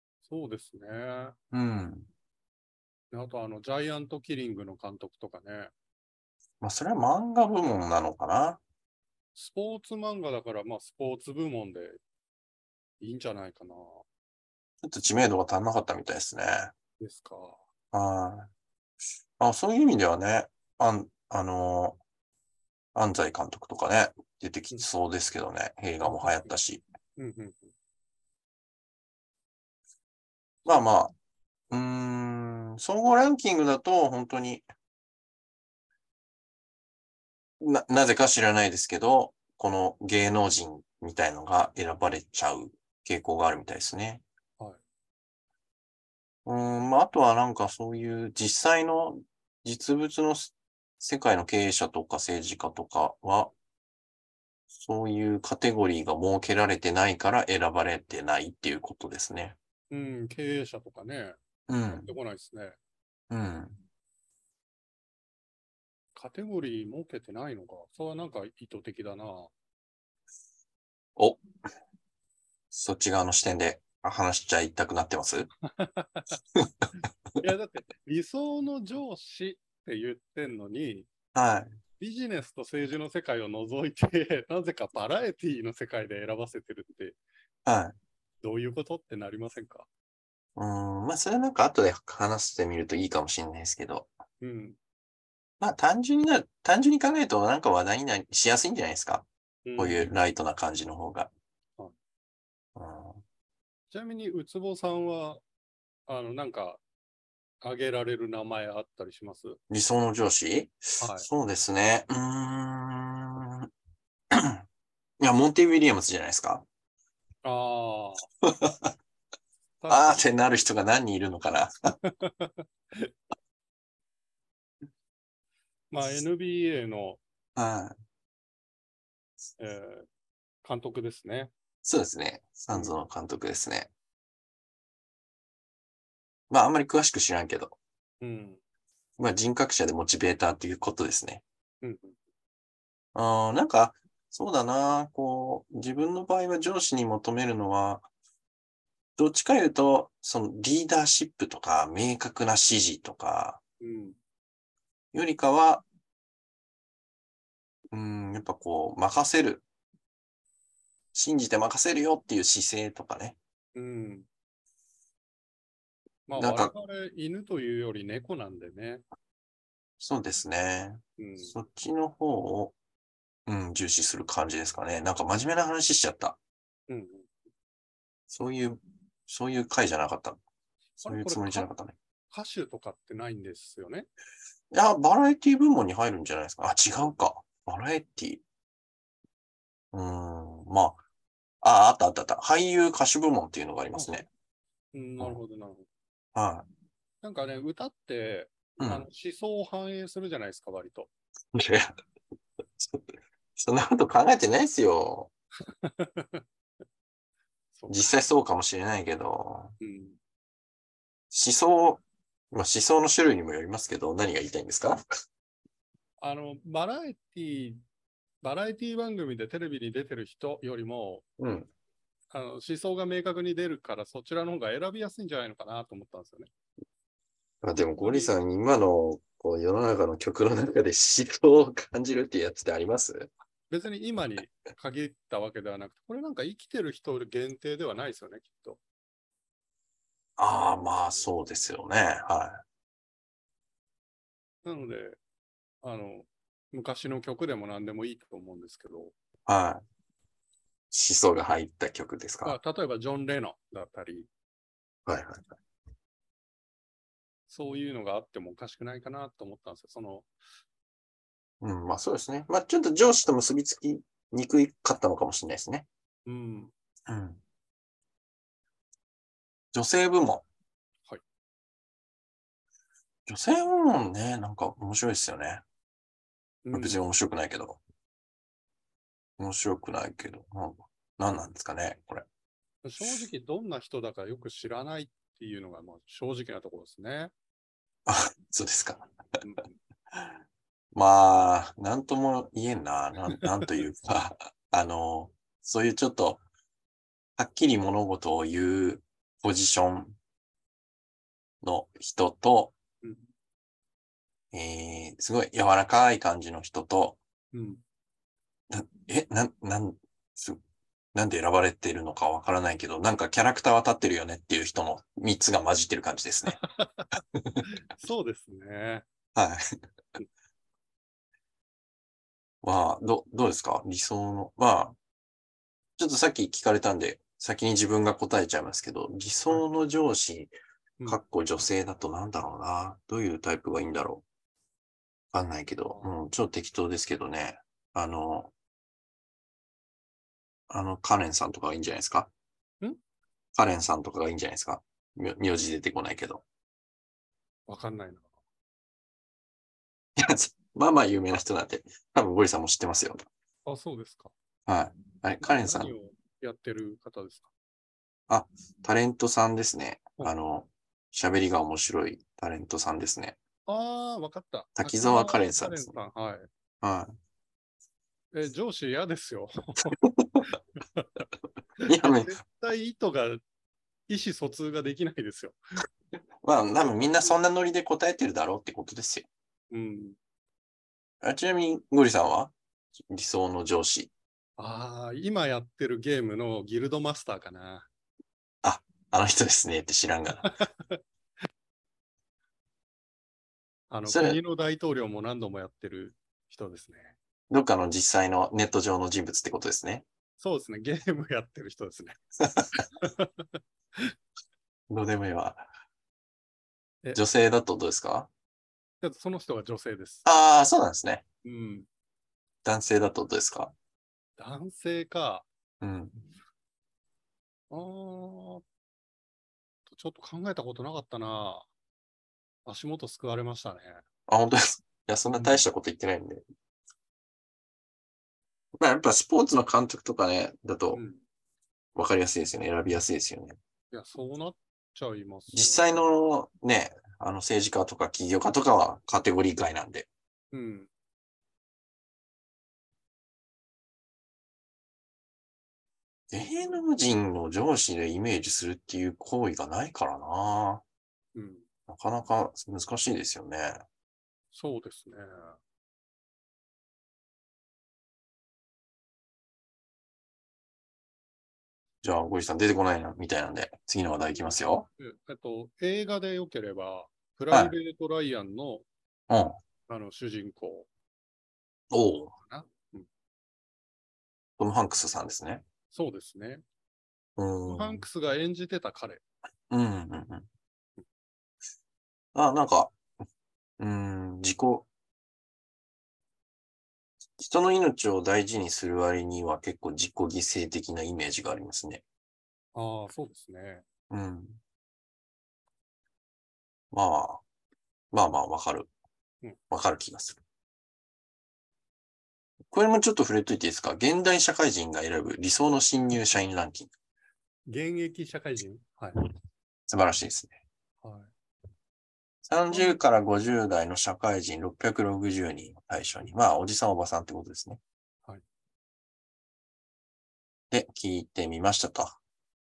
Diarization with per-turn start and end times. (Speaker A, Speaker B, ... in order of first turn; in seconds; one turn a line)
Speaker A: 0.3-1.4
Speaker B: 1.5-2.1
Speaker A: 3.1-5.7
Speaker B: 6.6-8.6
Speaker A: 9.3-12.0
Speaker A: 13.0-14.1
Speaker B: 14.8-16.7
Speaker A: 17.0-17.6
Speaker B: 17.9-18.5
Speaker B: 19.4-22.0
Speaker B: 22.9-26.8
Speaker A: 26.1-26.5
Speaker A: 27.2-27.7
Speaker B: 30.6-31.1
Speaker B: 31.7-34.6
Speaker B: 37.6-44.2
Speaker B: 46.4-53.5
Speaker B: 54.7-59.6
Speaker A: 59.9-62.8
Speaker B: 61.7-62.1
Speaker B: 63.3-63.8
Speaker A: 66.1-69.5
Speaker B: 71.2-71.4
Speaker B: 72.7-75.5
Speaker A: 75.7-76.4
Speaker A: 77.4-81.1
Speaker B: 81.3-81.8
Speaker A: 82.0-87.2
Speaker B: 87.6-88.0
Speaker A: 88.4-89.9
Speaker B: 90.6-94.1
Speaker A: 94.4-94.8
Speaker B: 95.6-99.2
Speaker A: 99.7-100.1
Speaker B: 99.8-101.3
Speaker B: 102.8-103.2
Speaker A: 103.9-105.4
Speaker A: 106.1-106.8
Speaker A: 107.6-109.6
Speaker B: 109.7-113.7
Speaker A: 111.0-111.3
Speaker B: 114.3-114.6
Speaker B: 115.2-116.7
Speaker A: 117.4-118.2
Speaker B: 118.4-118.9
Speaker A: 119.8-120.2
Speaker B: 119.9-121.7
Speaker A: 122.0-123.1
Speaker A: 125.9-127.2
Speaker B: 127.6-127.9
Speaker A: 129.6-130.1
Speaker A: 130.6-131.5
Speaker B: 131.8-133.9
Speaker B: 136.5-137.8
Speaker A: 138.2-138.6
Speaker B: 139.2-141.4
Speaker A: 141.8-142.2
Speaker B: 143.1-148.1
Speaker B: 149.2-153.6
Speaker A: 153.8-154.2
Speaker B: 155.1-155.8
Speaker B: 157.9-159.6
Speaker B: 161.1-163.4
Speaker A: 163.7-164.3
Speaker A: 166.3-169.1
Speaker B: 166.3-166.7
Speaker B: 170.0-172.7
Speaker A: 171.2-171.5
Speaker B: 173.4-176.4
Speaker A: 176.9-177.3
Speaker B: 178.3-180.4
Speaker A: 181.0-181.7
Speaker B: 181.1-181.9
Speaker A: 182.3-184.1
Speaker B: 184.7-188.4
Speaker B: 189.9-191.0
Speaker B: 191.6-194.3
Speaker A: 193.9-194.2
Speaker A: 194.9-195.9
Speaker B: 196.3-196.7
Speaker A: 197.2-201.1
Speaker B: 198.8-199.1
Speaker B: 201.5-201.9
Speaker B: 202.8-205.3
Speaker A: 205.8-206.4
Speaker A: 207.7-208.2
Speaker B: 207.9-209.7
Speaker A: 209.8-210.2
Speaker B: 211.3-215.0
Speaker A: 216.2-217.8
Speaker A: 218.4-221.3
Speaker B: 221.4-221.7
Speaker A: 222.3-226.5
Speaker B: 227.6-233.3
Speaker A: 227.9-228.3
Speaker A: 233.7-238.8
Speaker B: 240.4-242.6
Speaker A: 244.7-245.2
Speaker A: 245.8-249.1
Speaker B: 249.4-249.8
Speaker B: 250.9-252.6
Speaker A: 252.4-254.3
Speaker B: 255.1-255.5
Speaker A: 257.5-260.3
Speaker B: 261.6-265.9
Speaker A: 266.2-266.7
Speaker B: 267.1-267.4
Speaker B: 269.7-270.4
Speaker B: 273.3-275.6
Speaker A: 276.7-277.0
Speaker B: 276.7-277.8
Speaker B: 279.4-282.2
Speaker A: 282.8-287.3
Speaker B: 288.1-289.1
Speaker A: 289.4-289.7
Speaker B: 290.9-296.4
Speaker B: 297.4-300.2
Speaker B: 301.6-302.7
Speaker B: 304.5-307.2
Speaker A: 307.5-307.8
Speaker B: 308.7-310.6
Speaker B: 311.1-316.6
Speaker A: 316.5-319.1
Speaker B: 317.3-317.6
Speaker B: 319.3-319.7
Speaker B: 322.6-325.0
Speaker B: 326.0-330.5
Speaker B: 331.1-334.2
Speaker B: 335.3-338.5
Speaker B: 340.7-342.3
Speaker B: 343.6-346.4
Speaker A: 347.7-348.3
Speaker B: 350.2-353.2
Speaker A: 353.7-354.3
Speaker B: 354.7-355.9
Speaker A: 355.4-357.5
Speaker B: 358.3-363.4
Speaker A: 363.7-366.5
Speaker B: 364.8-365.9
Speaker B: 366.8-367.2
Speaker A: 368.3-370.0
Speaker B: 370.2-370.4
Speaker A: 370.5-371.1
Speaker A: 371.8-373.4
Speaker B: 371.9-372.4
Speaker A: 374.1-375.6
Speaker B: 376.4-379.3
Speaker A: 376.8-377.3
Speaker A: 379.7-380.2
Speaker B: 381.2-384.1
Speaker A: 384.6-387.9
Speaker B: 388.6-390.5
Speaker A: 390.4-391.0
Speaker A: 393.9-397.2
Speaker B: 394.1-394.4
Speaker B: 397.5-400.1
Speaker A: 400.4-402.2
Speaker A: 402.7-404.1
Speaker B: 404.9-405.7
Speaker B: 407.1-408.3
Speaker A: 409.0-410.2
Speaker B: 410.2-411.2
Speaker A: 411.4-411.9
Speaker B: 412.6-413.7
Speaker A: 414.4-415.5
Speaker B: 415.8-416.2
Speaker A: 417.7-418.6
Speaker A: 419.9-421.7
Speaker A: 422.7-424.0
Speaker B: 424.3-426.4
Speaker A: 425.3-425.6
Speaker B: 428.8-431.0
Speaker A: 430.9-431.2
Speaker B: 431.9-433.6
Speaker A: 433.9-436.0
Speaker B: 435.5-440.1
Speaker A: 440.5-440.9
Speaker B: 446.3-450.8
Speaker A: 451.4-451.7
Speaker B: 451.9-453.8
Speaker A: 454.5-455.6
Speaker B: 462.0-464.9
Speaker A: 465.0-468.9
Speaker B: 469.3-469.6
Speaker A: 469.9-470.9
Speaker B: 471.9-472.3
Speaker A: 472.4-473.1
Speaker B: 474.6-475.6
Speaker A: 475.9-476.6
Speaker B: 477.4-478.0
Speaker A: 477.7-479.2
Speaker B: 479.7-480.5
Speaker B: 482.3-483.0
Speaker B: 483.8-484.9
Speaker B: 487.4-492.0
Speaker A: 492.7-493.8
Speaker B: 494.1-494.6
Speaker B: 496.9-497.4
Speaker B: 498.1-498.9
Speaker B: 499.7-500.4
Speaker B: 502.7-506.9
Speaker A: 507.7-509.2
Speaker B: 509.9-510.5
Speaker A: 511.0-511.3
Speaker B: 512.4-517.8
Speaker A: 512.7-513.0
Speaker B: 520.7-522.2